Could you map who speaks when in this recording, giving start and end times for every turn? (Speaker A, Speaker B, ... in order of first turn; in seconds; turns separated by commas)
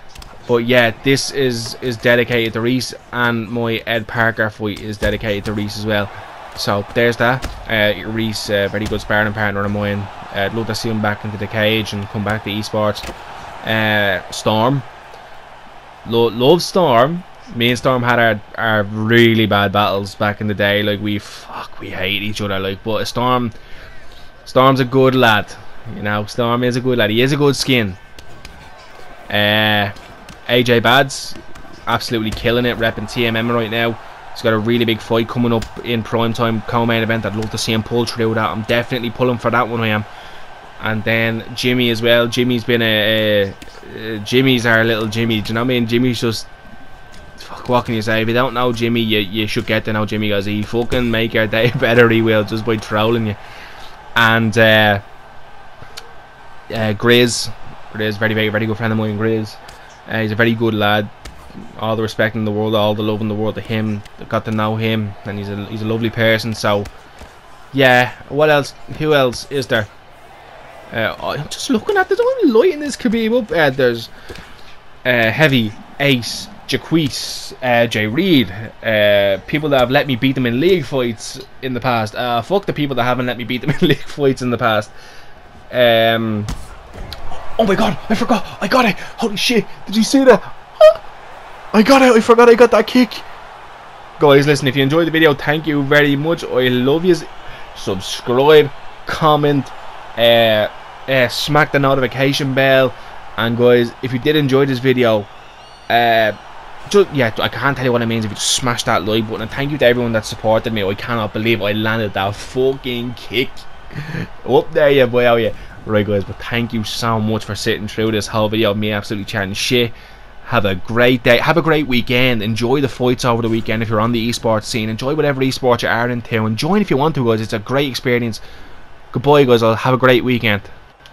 Speaker A: 0.5-13.1, Speaker A: 13.6-14.9, Speaker A: 16.1-23.6, Speaker A: 24.4-28.0, Speaker A: 29.3-30.0, Speaker A: 30.5-40.1, Speaker A: 40.8-46.5, Speaker A: 47.4-53.4, Speaker A: 54.2-55.0, Speaker A: 56.7-61.1, Speaker A: 61.6-66.9, Speaker A: 67.7-69.9, Speaker A: 70.9-74.1, Speaker A: 75.0-84.9, Speaker A: 85.7-86.5, Speaker A: 87.3-91.0, Speaker A: 91.7-93.3, Speaker A: 94.2-105.3, Speaker A: 105.9-128.4, Speaker A: 129.1-130.7